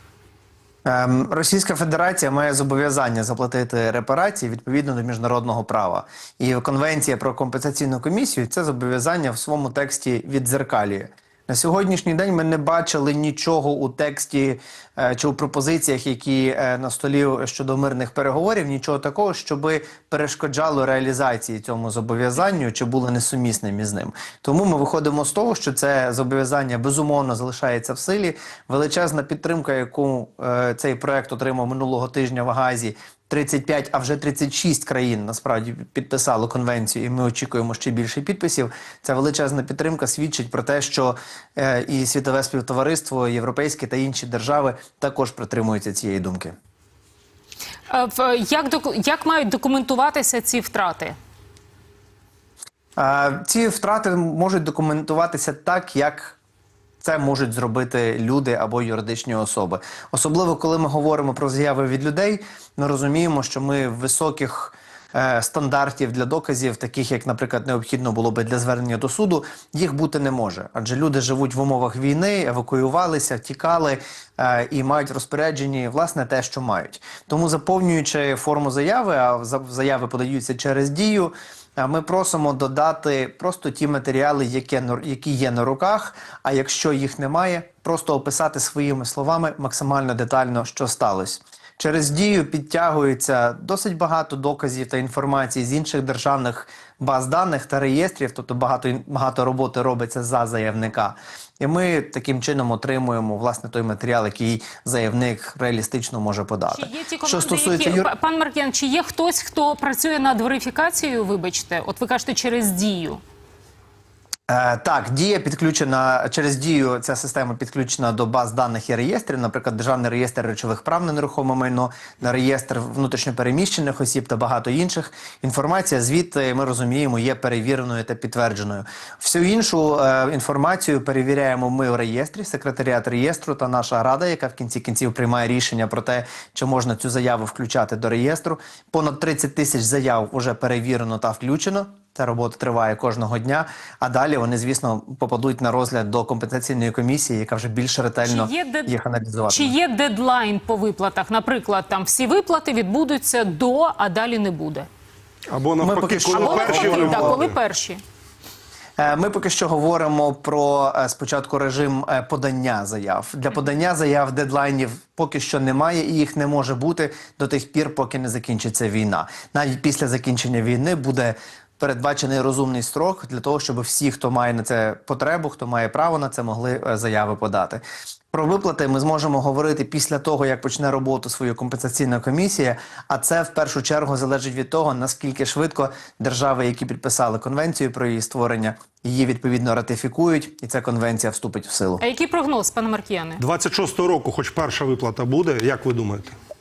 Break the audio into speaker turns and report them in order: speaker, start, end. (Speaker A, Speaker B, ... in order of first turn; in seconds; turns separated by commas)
Speaker A: 0.8-46.5, Speaker B: 47.9-51.1, Speaker A: 53.0-56.4, Speaker A: 57.0-108.0, Speaker B: 106.7-113.2, Speaker A: 114.5-149.7, Speaker B: 148.2-148.9, Speaker B: 149.5-154.9, Speaker C: 155.5-157.5, Speaker A: 155.8-157.4, Speaker B: 156.3-158.0, Speaker A: 159.0-192.0, Speaker B: 192.0-193.4, Speaker C: 193.4-196.3